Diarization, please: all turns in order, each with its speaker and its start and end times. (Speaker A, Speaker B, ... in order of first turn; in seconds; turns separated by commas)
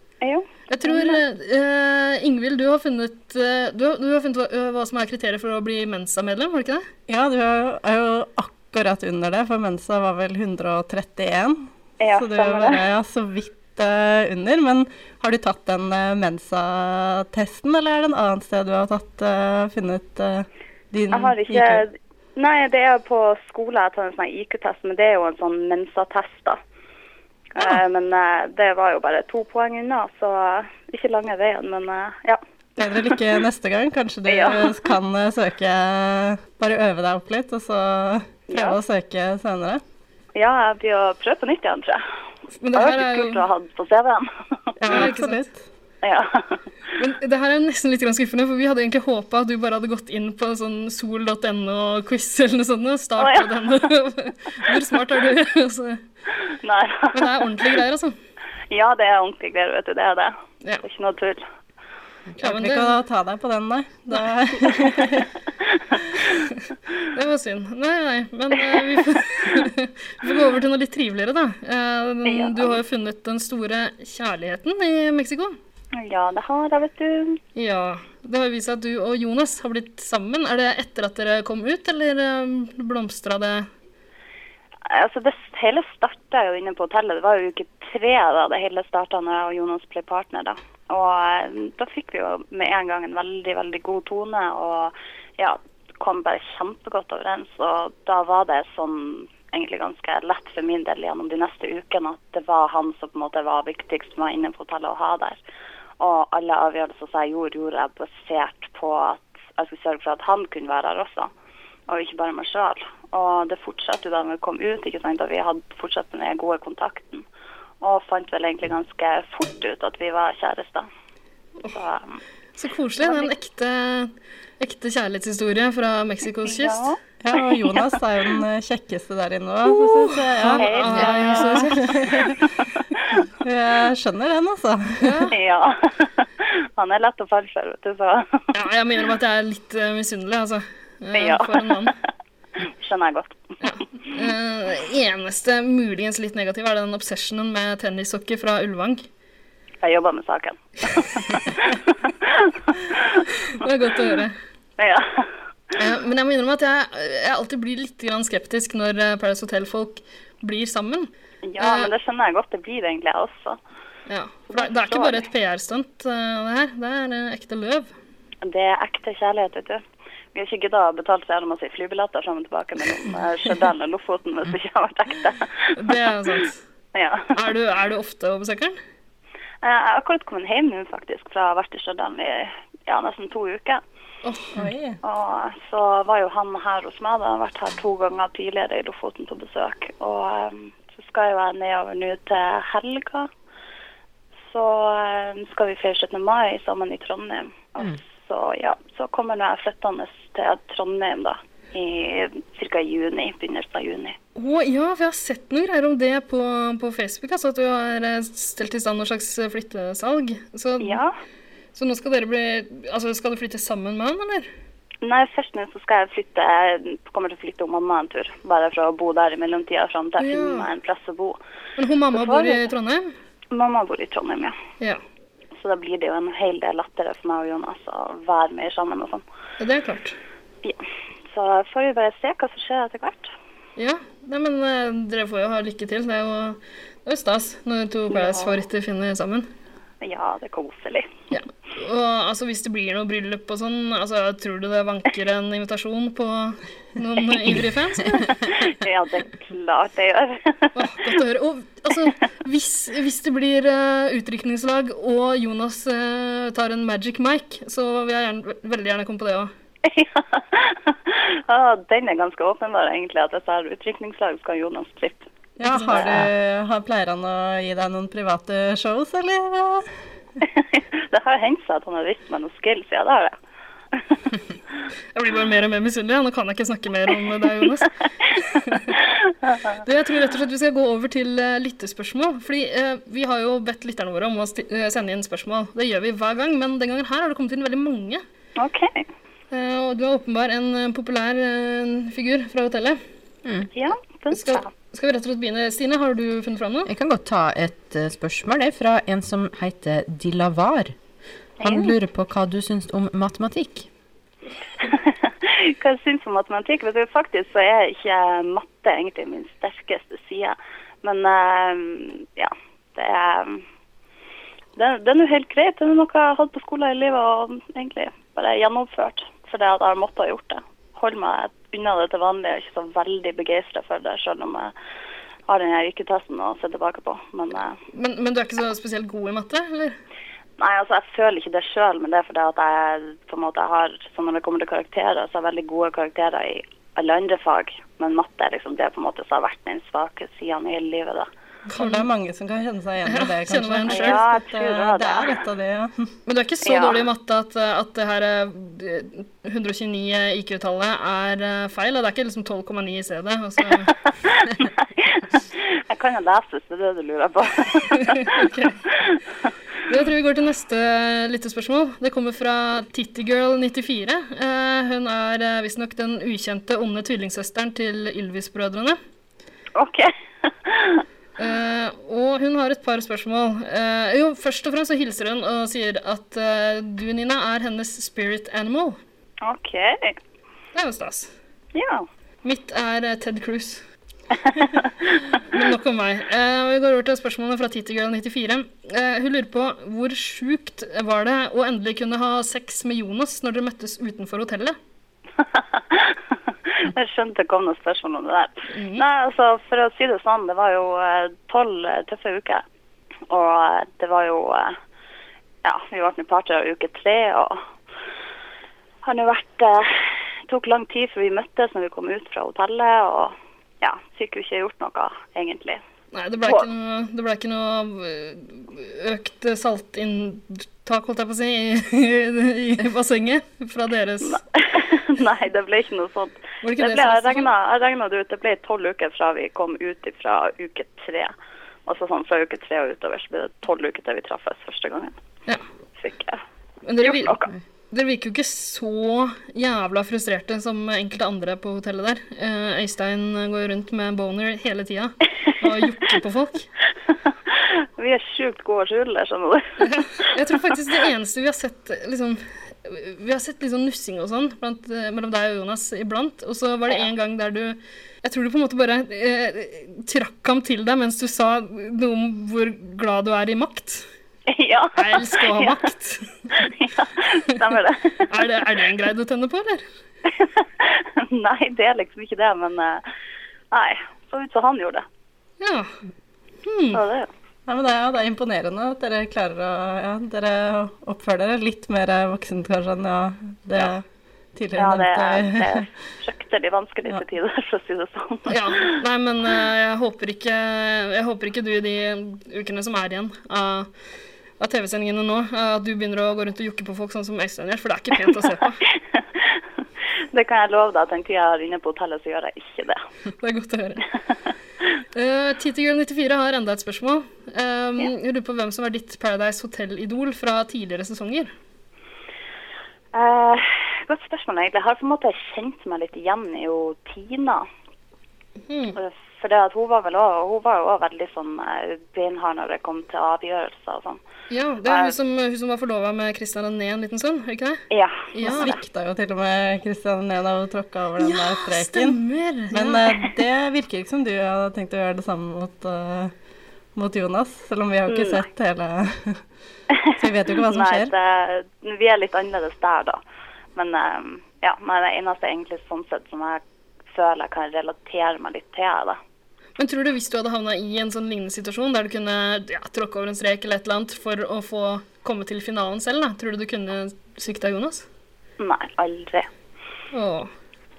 Speaker A: 0.2-1.2, Speaker B: 0.7-6.8, Speaker C: 7.1-21.8, Speaker A: 12.0-12.8, Speaker A: 21.1-26.6, Speaker A: 27.5-32.4, Speaker C: 32.8-39.8, Speaker A: 34.3-34.9, Speaker A: 38.5-38.8, Speaker A: 40.3-42.0, Speaker B: 42.6-43.5, Speaker A: 42.7-44.3, Speaker B: 44.8-45.5, Speaker C: 44.8-45.6, Speaker A: 46.0-46.6, Speaker B: 47.0-56.0, Speaker A: 53.2-53.7, Speaker A: 56.6-57.8, Speaker B: 57.1-58.1, Speaker A: 58.7-61.4, Speaker B: 62.4-63.0, Speaker C: 62.4-65.3, Speaker A: 65.6-66.2, Speaker B: 67.1-75.5, Speaker A: 68.6-69.7, Speaker A: 72.2-72.8, Speaker A: 75.9-77.4, Speaker B: 77.6-83.7, Speaker A: 84.9-105.4, Speaker A: 106.0-111.3, Speaker A: 111.9-117.2, Speaker A: 117.8-120.9, Speaker A: 121.7-122.2, Speaker B: 122.6-126.9, Speaker A: 123.0-123.4, Speaker A: 126.4-127.9, Speaker C: 127.2-132.4, Speaker B: 129.7-132.1, Speaker A: 130.5-133.2, Speaker C: 133.4-135.1, Speaker B: 135.0-135.3, Speaker A: 135.3-138.4, Speaker B: 138.5-141.9, Speaker A: 141.1-141.9, Speaker A: 142.7-143.7, Speaker B: 143.6-149.0, Speaker A: 149.8-154.2, Speaker B: 153.6-154.3, Speaker A: 154.8-155.3, Speaker B: 155.8-161.9, Speaker A: 161.4-163.6, Speaker B: 164.1-167.9, Speaker A: 164.5-165.3, Speaker A: 168.4-169.8, Speaker A: 170.3-177.4, Speaker B: 175.8-176.6, Speaker B: 177.3-178.8, Speaker A: 179.6-183.8, Speaker B: 184.2-184.5, Speaker C: 184.6-185.0, Speaker A: 185.0-193.3, Speaker A: 194.4-204.2, Speaker B: 204.3-211.0, Speaker A: 210.8-211.1, Speaker B: 211.7-214.5, Speaker A: 215.0-221.4, Speaker B: 220.2-220.7, Speaker B: 221.8-223.1, Speaker A: 222.1-222.7, Speaker A: 223.5-224.6, Speaker A: 225.6-229.2, Speaker B: 229.6-230.2, Speaker A: 231.3-233.3, Speaker B: 233.8-239.5, Speaker A: 238.1-238.6, Speaker A: 240.0-241.1, Speaker B: 241.3-248.3, Speaker A: 247.2-251.2, Speaker B: 250.7-259.5, Speaker A: 259.8-265.2, Speaker C: 265.6-269.9, Speaker B: 265.7-266.3, Speaker A: 265.8-266.2, Speaker A: 270.4-273.3, Speaker B: 275.1-277.9, Speaker A: 277.6-279.8, Speaker B: 279.8-288.2, Speaker A: 288.6-289.1, Speaker B: 289.5-293.0, Speaker D: 293.4-293.7, Speaker A: 293.7-294.7, Speaker B: 294.3-296.9, Speaker D: 296.9-300.9, Speaker A: 301.6-301.9, Speaker D: 301.6-303.9, Speaker A: 304.8-313.6, Speaker A: 314.8-324.7, Speaker A: 325.5-327.8, Speaker B: 327.9-329.9, Speaker A: 330.6-341.3, Speaker B: 341.7-342.1, Speaker C: 341.8-345.9, Speaker B: 343.1-344.3, Speaker A: 343.9-345.4, Speaker B: 346.3-353.9, Speaker A: 346.6-347.1, Speaker A: 353.6-358.5, Speaker B: 358.2-358.8, Speaker B: 359.9-369.0, Speaker A: 369.8-371.0, Speaker B: 371.4-379.0, Speaker A: 379.4-380.2, Speaker B: 380.7-381.3, Speaker A: 381.7-382.1, Speaker B: 382.4-383.8, Speaker A: 384.3-385.3, Speaker B: 385.5-394.8, Speaker A: 395.4-396.2, Speaker A: 396.8-402.6, Speaker B: 398.7-399.0, Speaker A: 403.3-404.8, Speaker A: 405.6-407.6, Speaker A: 409.0-415.8, Speaker B: 416.1-424.4, Speaker A: 416.4-416.7, Speaker A: 424.2-431.3, Speaker B: 426.6-427.5, Speaker A: 431.9-435.1, Speaker A: 436.0-436.4, Speaker B: 436.9-437.4, Speaker A: 437.0-437.5, Speaker B: 437.9-446.7, Speaker A: 445.6-446.1, Speaker A: 447.5-451.1, Speaker B: 449.8-464.1, Speaker A: 464.5-465.9, Speaker B: 465.0-466.2, Speaker A: 466.5-468.6, Speaker B: 468.3-469.8, Speaker A: 470.3-473.0, Speaker A: 473.7-475.0, Speaker B: 475.6-475.9, Speaker B: 476.6-477.0, Speaker A: 476.9-477.3, Speaker C: 477.7-484.0, Speaker C: 484.5-485.9, Speaker A: 484.8-488.9, Speaker B: 488.5-493.9, Speaker B: 494.6-498.8, Speaker A: 498.9-499.6, Speaker A: 500.3-503.0, Speaker B: 503.4-504.0, Speaker B: 505.1-511.5, Speaker A: 513.1-517.7, Speaker B: 518.7-519.0, Speaker A: 518.9-524.2, Speaker B: 524.5-527.8, Speaker A: 524.8-525.1, Speaker A: 527.9-528.8, Speaker B: 528.3-528.7, Speaker C: 528.5-532.2, Speaker B: 531.2-533.0, Speaker C: 532.7-536.3, Speaker C: 537.0-539.4, Speaker A: 538.1-538.4, Speaker C: 540.2-541.1, Speaker A: 540.6-543.2, Speaker A: 543.7-549.2, Speaker B: 549.8-558.0, Speaker A: 558.6-559.5, Speaker B: 560.1-560.5